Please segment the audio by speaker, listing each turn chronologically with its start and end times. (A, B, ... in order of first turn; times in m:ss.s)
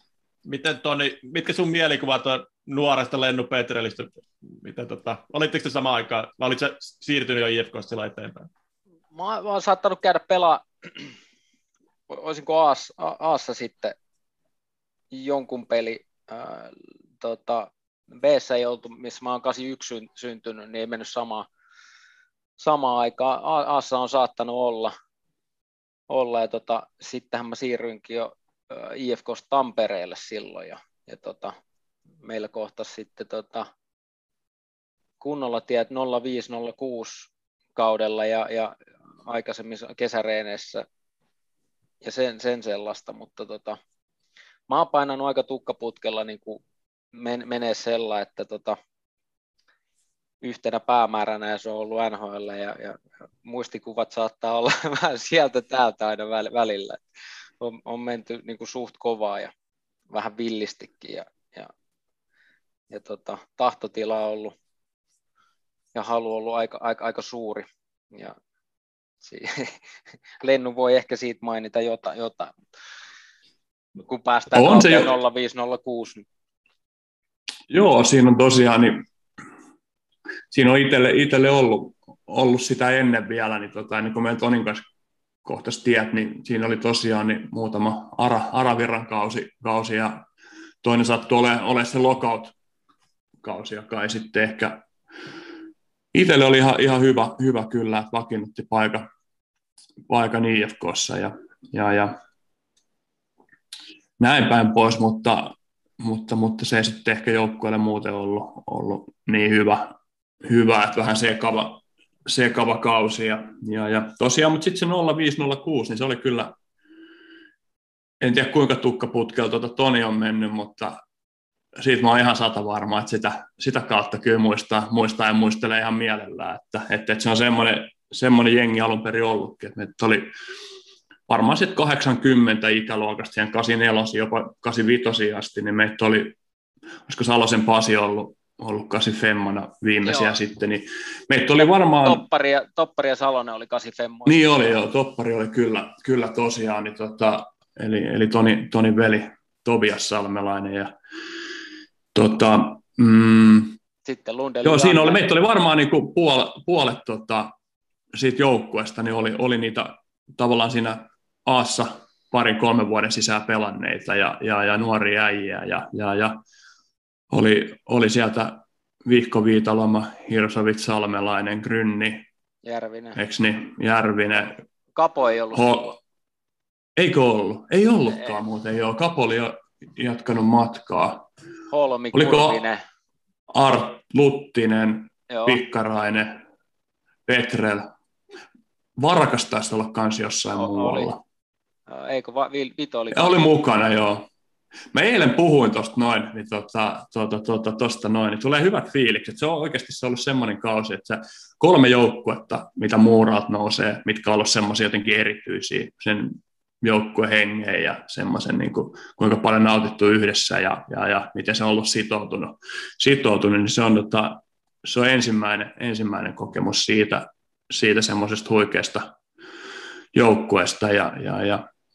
0:00.4-0:08.5 A
0:09.1-0:11.1 B
0:12.1-0:14.0 B
0:15.1-0:21.5 B
0:22.6-0:24.9 B
0:26.1-0:31.6 B
0:32.2-0:33.7 B
0:35.2-0:38.7 B
0:39.3-0:40.8 B
0:42.0-0:43.8 B
0:44.7-0:46.6 B
0:47.1-0:48.8 B
0:50.4-0:57.0 B
0:57.6-0:59.5 B
1:00.1-1:01.7 B
1:02.9-1:04.6 B
1:06.0-1:08.4 B
1:09.2-1:09.8 B
1:10.4-1:12.6 B
1:14.1-1:16.2 B
1:14.5-1:15.1 C
1:17.7-1:19.0 C
1:20.5-1:24.8 C
1:25.4-1:30.2 C
1:30.8-1:32.5 C
1:33.4-1:34.8 C
1:36.1-1:39.0 C
1:40.1-1:42.1 C
1:44.2-1:49.9 C
1:50.4-1:56.5 C
1:58.2-2:01.0 C
2:01.8-2:10.3 C
2:11.3-2:16.4 C
2:17.1-2:22.2 C
2:20.1-2:20.4 B
2:22.0-2:24.8 B
2:24.3-2:30.9 C
2:32.1-2:33.8 C
2:34.0-2:35.3 B
2:34.6-2:37.5 C
2:38.1-2:46.4 C
2:47.3-2:52.3 C
2:52.6-2:53.2 B
2:53.2-2:54.6 C
2:55.0-2:55.7 B
2:55.5-2:56.0 C
2:57.0-3:01.3 C
3:01.7-3:02.8 B
3:02.1-3:02.6 C
3:03.5-3:06.3 C
3:05.3-3:05.6 B
3:07.3-3:07.9 C
3:09.0-3:11.2 C
3:10.6-3:11.1 B
3:11.9-3:13.5 B
3:13.1-3:14.2 C
3:14.9-3:39.1 C
3:40.1-3:41.6 C